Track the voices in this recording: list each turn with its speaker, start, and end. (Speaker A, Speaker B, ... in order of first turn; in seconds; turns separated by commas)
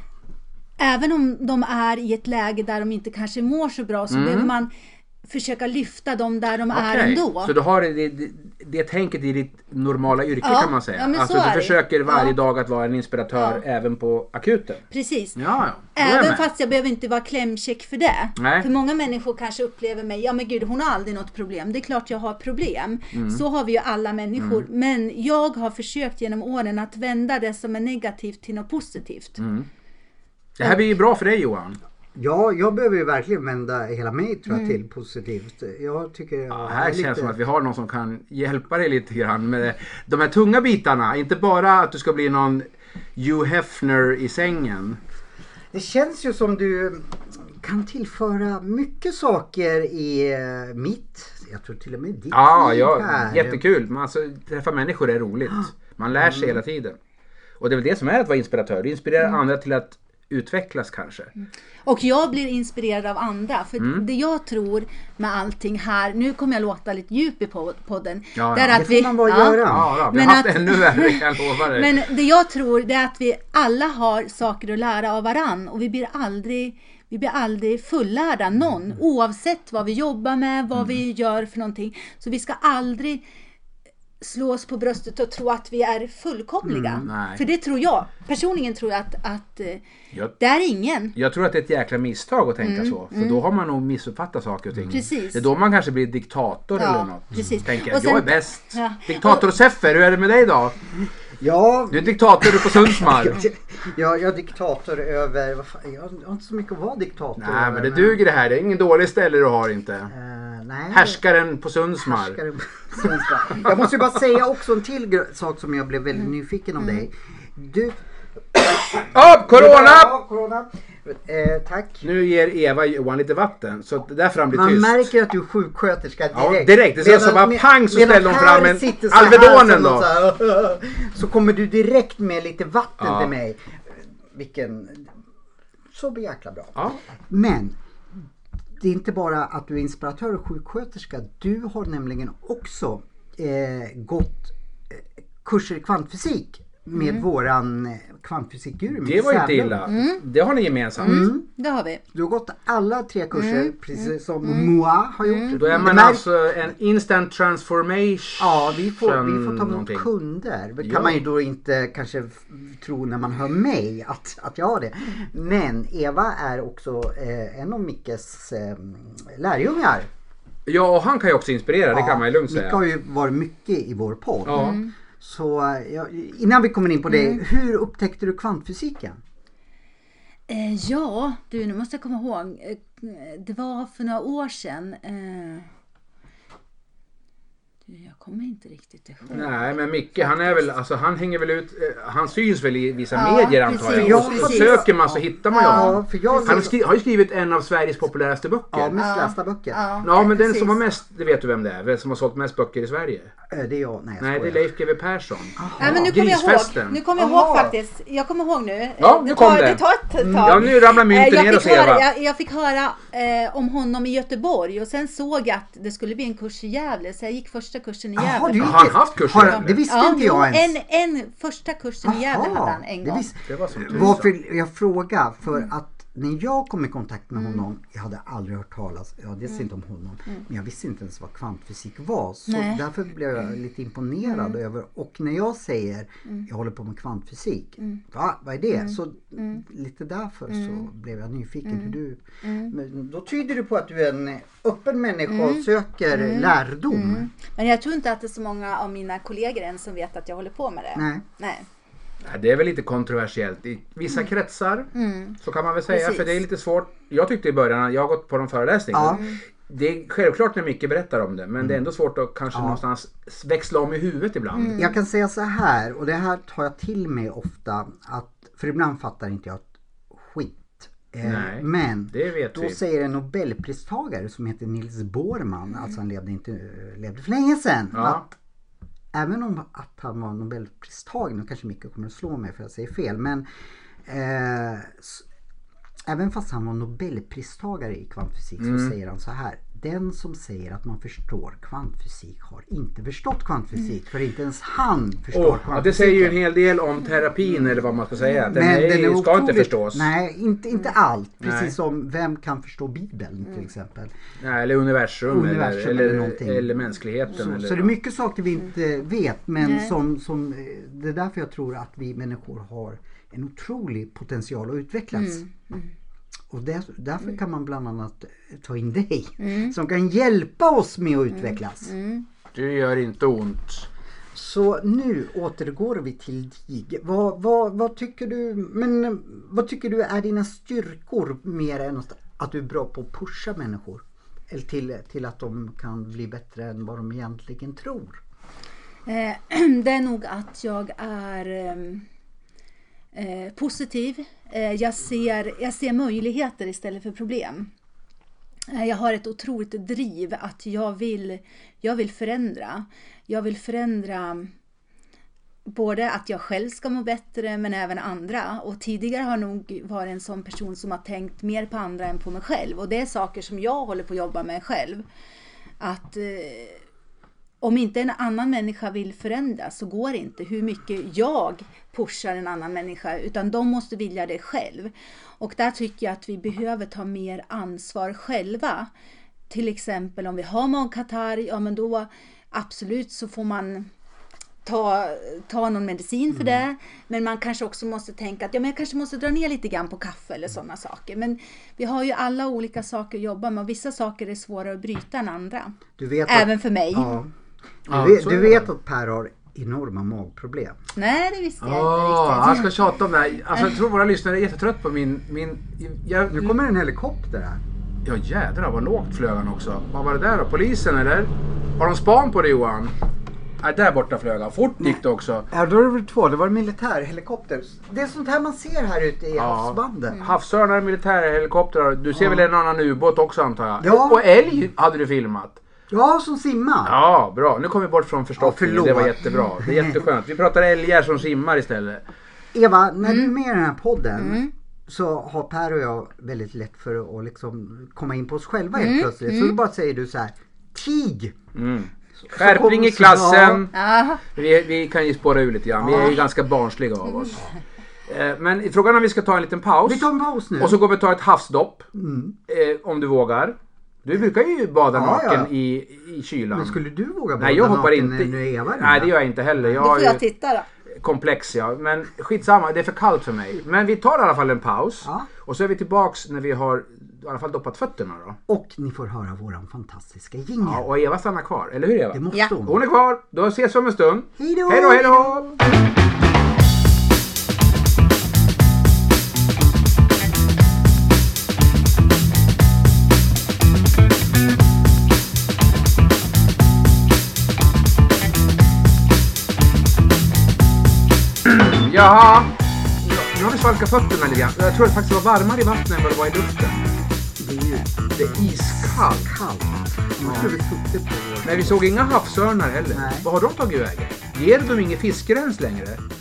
Speaker A: 0.8-4.7, Speaker B: 4.1-4.5, Speaker A: 5.3-7.5, Speaker B: 6.7-14.8, Speaker A: 10.4-12.3, Speaker A: 13.3-13.6, Speaker A: 14.9-15.4, Speaker B: 15.4-16.5, Speaker A: 15.9-29.4, Speaker B: 18.4-18.7, Speaker B: 23.1-23.4, Speaker B: 24.4-24.6, Speaker B: 29.4-29.7, Speaker B: 30.6-31.8, Speaker C: 32.1-37.4, Speaker B: 36.5-42.7, Speaker B: 43.2-45.0, Speaker C: 45.7-53.6, Speaker B: 52.3-57.0, Speaker C: 56.2-56.6, Speaker B: 57.6-61.3, Speaker A: 61.9-83.2, Speaker B: 63.8-64.0, Speaker B: 68.4-68.8, Speaker C: 68.7-69.9, Speaker B: 69.7-72.0, Speaker A: 84.2-89.8, Speaker C: 86.6-87.1, Speaker B: 87.0-87.4, Speaker A: 90.4-91.1, Speaker B: 91.2-100.8, Speaker A: 92.6-93.4, Speaker A: 94.9-95.4, Speaker A: 96.8-99.4, Speaker C: 101.4-108.2, Speaker B: 101.9-103.5, Speaker B: 107.4-110.1, Speaker C: 110.1-111.2, Speaker B: 110.9-112.4, Speaker C: 112.0-118.0, Speaker C: 118.5-122.1, Speaker B: 119.0-120.2, Speaker B: 122.0-125.1, Speaker C: 124.5-135.1, Speaker B: 126.3-130.1, Speaker B: 133.0-133.3, Speaker C: 135.9-138.2, Speaker C: 138.8-149.9, Speaker A: 146.9-147.2, Speaker B: 149.0-151.3, Speaker A: 149.9-150.2, Speaker C: 151.0-151.4, Speaker A: 151.0-152.0, Speaker C: 152.1-156.2, Speaker A: 153.3-154.7, Speaker A: 155.2-155.6, Speaker B: 155.6-160.1, Speaker C: 158.4-170.1, Speaker B: 160.8-161.2, Speaker B: 170.7-172.8, Speaker C: 171.9-179.2, Speaker B: 174.5-174.8, Speaker A: 174.5-174.9, Speaker A: 177.1-177.4, Speaker A: 180.5-185.7, Speaker A: 187.9-190.6, Speaker B: 189.3-199.0, Speaker A: 193.1-194.9, Speaker C: 193.9-196.7, Speaker A: 195.5-196.6, Speaker C: 198.7-199.8, Speaker A: 199.0-200.8, Speaker B: 200.0-203.3, Speaker C: 203.5-204.6, Speaker B: 204.2-207.0, Speaker C: 205.6-206.1, Speaker A: 205.8-223.3, Speaker C: 207.2-207.7, Speaker B: 209.0-209.8, Speaker C: 210.2-210.7, Speaker B: 210.4-212.0, Speaker C: 218.2-220.8, Speaker B: 218.6-219.8, Speaker C: 222.0-247.3, Speaker B: 223.4-224.3, Speaker A: 232.5-232.8, Speaker A: 234.3-234.6, Speaker A: 238.7-239.6, Speaker A: 240.5-240.9, Speaker A: 241.7-242.7, Speaker A: 245.3-251.7, Speaker C: 250.9-251.2, Speaker B: 252.2-264.8, Speaker A: 254.9-255.4, Speaker A: 255.9-256.4, Speaker C: 258.9-259.2, Speaker A: 259.1-259.4, Speaker C: 262.5-262.8, Speaker A: 264.6-264.9, Speaker C: 264.8-278.3, Speaker B: 271.2-272.8, Speaker B: 277.9-278.2, Speaker C: 279.1-283.4, Speaker C: 284.1-285.2, Speaker C: 286.1-296.4, Speaker B: 288.6-288.9, Speaker B: 295.3-300.1, Speaker C: 298.5-304.1, Speaker B: 301.4-301.7, Speaker B: 304.4-307.9, Speaker C: 305.3-306.8, Speaker C: 307.3-315.4, Speaker A: 309.6-309.9, Speaker A: 315.1-315.9, Speaker C: 316.5-321.9, Speaker A: 319.4-319.8, Speaker A: 321.3-322.2, Speaker B: 322.5-323.9, Speaker C: 324.3-338.2, Speaker A: 339.1-342.1, Speaker A: 343.1-347.7, Speaker A: 348.7-354.5, Speaker A: 355.7-365.1, Speaker A: 365.8-366.8, Speaker A: 367.6-378.9, Speaker A: 379.5-383.9, Speaker A: 384.6-397.1, Speaker C: 386.3-386.6, Speaker C: 396.0-397.3, Speaker C: 397.9-400.8, Speaker B: 397.9-398.7, Speaker A: 401.0-402.7, Speaker B: 401.6-406.6, Speaker C: 406.3-407.6, Speaker B: 408.1-412.9, Speaker B: 413.6-415.5, Speaker C: 415.5-420.3, Speaker B: 419.4-425.6, Speaker C: 422.1-422.5, Speaker C: 423.8-424.2, Speaker C: 425.9-427.0, Speaker B: 426.9-432.0, Speaker C: 428.4-430.1, Speaker C: 432.5-441.4, Speaker A: 433.1-433.3, Speaker A: 434.2-434.5, Speaker A: 438.8-439.6, Speaker B: 441.6-443.7, Speaker C: 442.2-443.6, Speaker A: 443.7-444.2, Speaker B: 444.3-447.5, Speaker C: 445.8-446.2, Speaker A: 447.1-447.3, Speaker B: 448.1-451.9, Speaker C: 449.9-450.8, Speaker C: 451.9-452.4, Speaker B: 452.5-456.8, Speaker C: 454.9-455.5, Speaker C: 456.5-459.8, Speaker B: 457.4-460.2, Speaker A: 459.8-460.7, Speaker B: 461.0-468.4, Speaker C: 465.0-465.3, Speaker C: 468.5-470.9, Speaker B: 470.6-475.6, Speaker C: 472.1-472.8, Speaker C: 474.4-475.4, Speaker B: 491.4-496.8, Speaker C: 497.4-501.8, Speaker B: 498.2-499.4, Speaker B: 500.2-500.6, Speaker B: 501.4-506.0, Speaker C: 502.9-503.3